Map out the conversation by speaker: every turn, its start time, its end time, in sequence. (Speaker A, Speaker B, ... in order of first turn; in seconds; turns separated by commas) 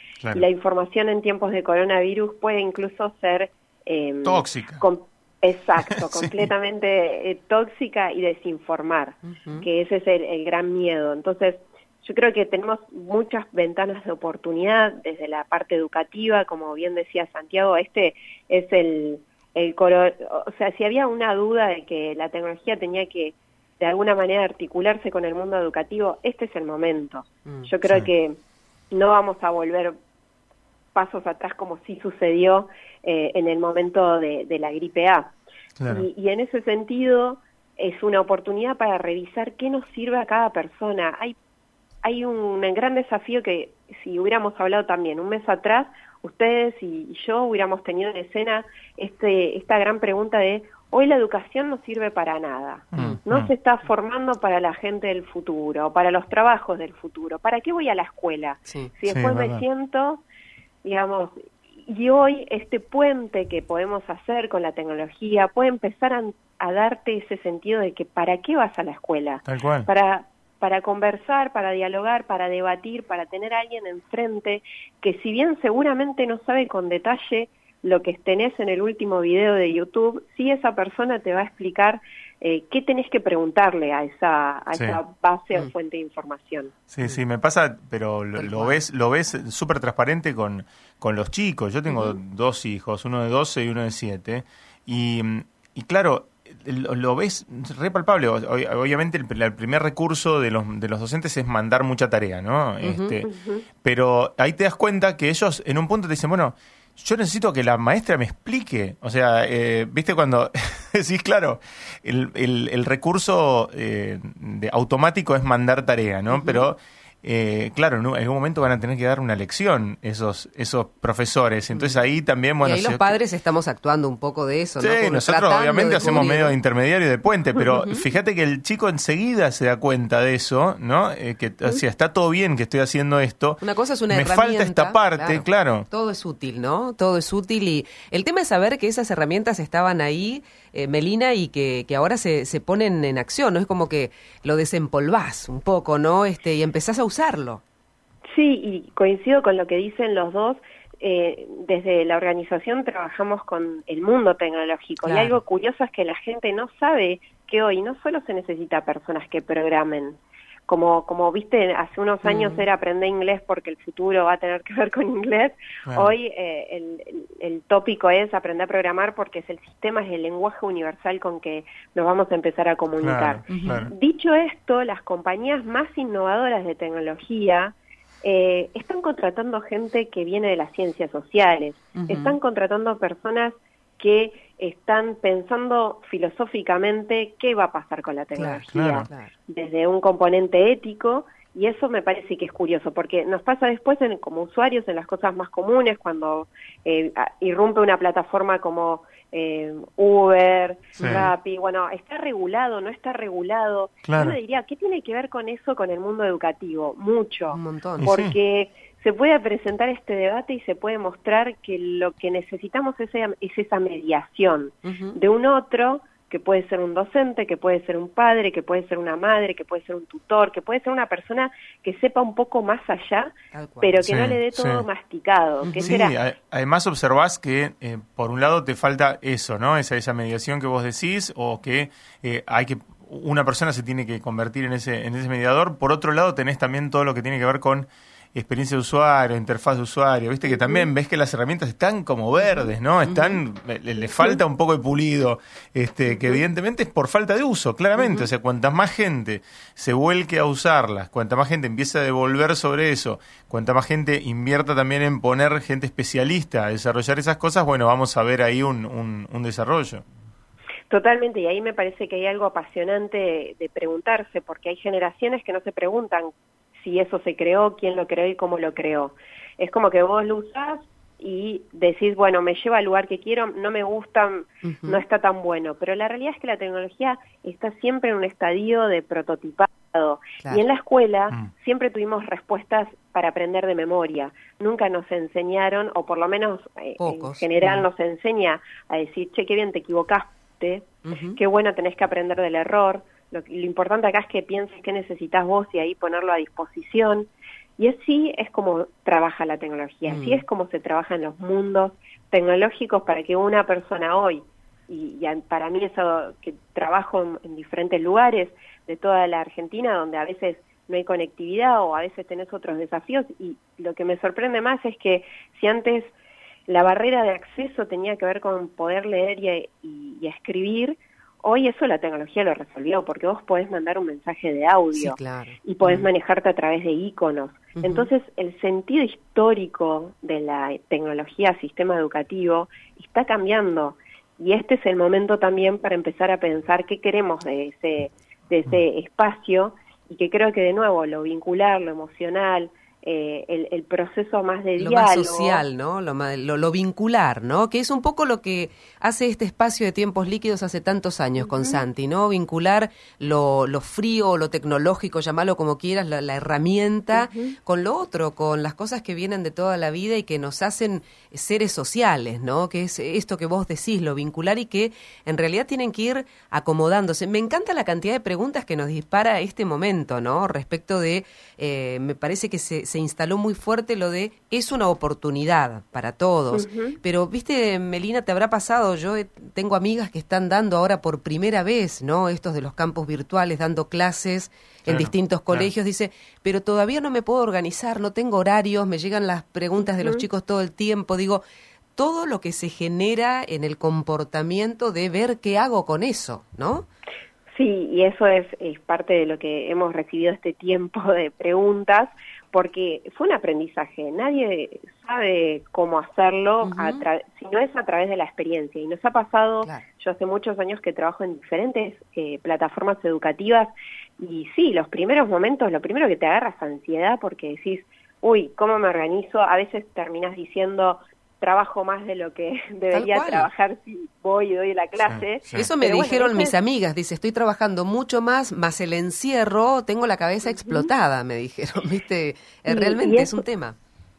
Speaker A: 0.3-28.4, Speaker B: 4.2-4.8, Speaker B: 5.8-6.5, Speaker C: 9.2-9.6, Speaker C: 27.4-27.7, Speaker A: 28.9-29.9, Speaker A: 30.9-35.3, Speaker B: 35.8-36.0, Speaker A: 35.9-41.3, Speaker A: 42.0-60.2, Speaker B: 52.9-53.5, Speaker C: 58.6-58.9, Speaker B: 59.1-59.6, Speaker A: 60.8-61.3, Speaker A: 61.8-86.7, Speaker B: 69.4-69.9, Speaker B: 86.9-103.3, Speaker C: 88.4-88.8, Speaker C: 102.8-103.2, Speaker A: 103.2-103.6, Speaker B: 103.8-123.2, Speaker C: 116.3-116.7, Speaker C: 122.6-126.5, Speaker B: 124.8-135.9, Speaker C: 127.7-128.0, Speaker C: 133.6-147.6, Speaker A: 148.3-226.1, Speaker C: 155.0-155.3, Speaker C: 162.2-162.6, Speaker B: 165.9-166.1, Speaker B: 173.0-173.9, Speaker C: 173.5-173.8, Speaker C: 181.9-182.4, Speaker C: 188.3-189.3, Speaker B: 188.7-189.1, Speaker B: 201.0-201.3, Speaker B: 204.0-204.4, Speaker C: 207.5-208.0, Speaker B: 208.0-208.3, Speaker C: 214.8-215.2, Speaker C: 223.5-224.1, Speaker B: 224.0-224.8, Speaker C: 225.6-225.9, Speaker B: 225.8-260.0, Speaker A: 240.5-240.8, Speaker C: 243.1-243.4, Speaker A: 246.1-246.4, Speaker C: 248.0-248.3, Speaker A: 260.9-316.1, Speaker C: 274.6-275.0, Speaker C: 287.0-287.8, Speaker C: 291.0-291.4, Speaker C: 300.1-300.4, Speaker A: 316.7-345.6, Speaker C: 324.9-326.1, Speaker C: 327.7-328.1, Speaker C: 344.8-391.4, Speaker A: 351.4-351.8, Speaker A: 357.1-357.6, Speaker A: 376.5-377.0, Speaker B: 384.8-385.7, Speaker C: 391.9-396.9, Speaker A: 397.5-426.6, Speaker C: 406.6-407.0, Speaker C: 422.9-423.5, Speaker B: 425.0-425.7, Speaker C: 425.5-433.8, Speaker A: 430.4-430.9, Speaker A: 432.7-433.4